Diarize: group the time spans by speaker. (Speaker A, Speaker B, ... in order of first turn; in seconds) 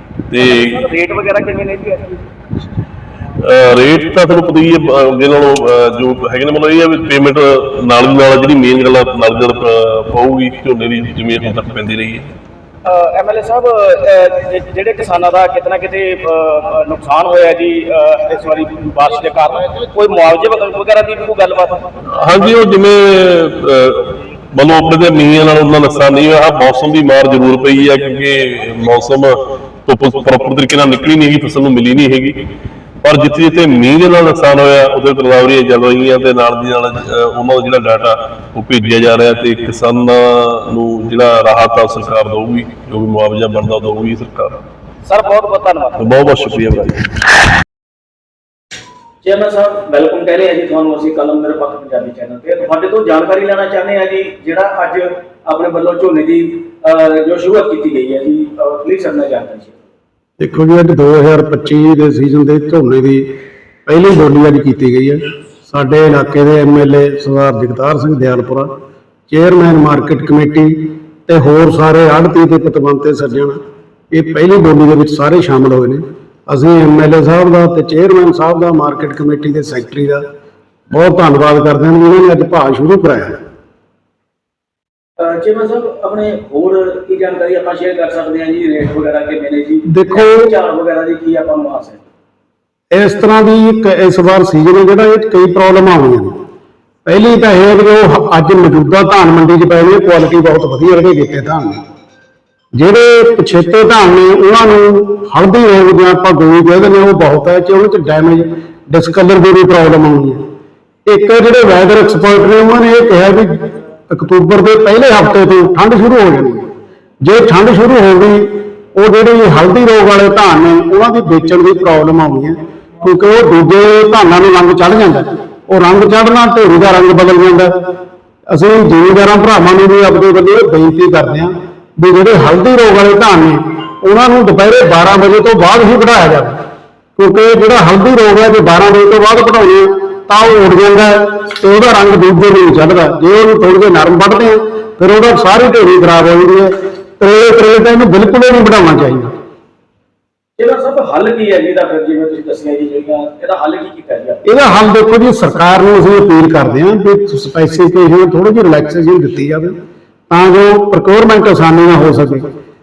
Speaker A: 0.3-0.8, 3.4-12.3, 22.1-32.4, 33.0-44.6, 46.0-47.1
Speaker B: 0.4-2.2, 12.8-21.9, 45.0-46.2, 49.2-59.8, 85.2-92.0, 150.6-154.4
Speaker C: 60.4-63.3, 63.9-68.7, 69.3-73.6, 74.1-80.2, 80.9-83.4, 89.9-90.5, 92.9-96.3, 97.0-101.8, 102.7-110.4, 111.0-116.7, 117.2-127.7, 128.5-136.6, 137.2-149.3, 154.4-159.7, 160.3-162.4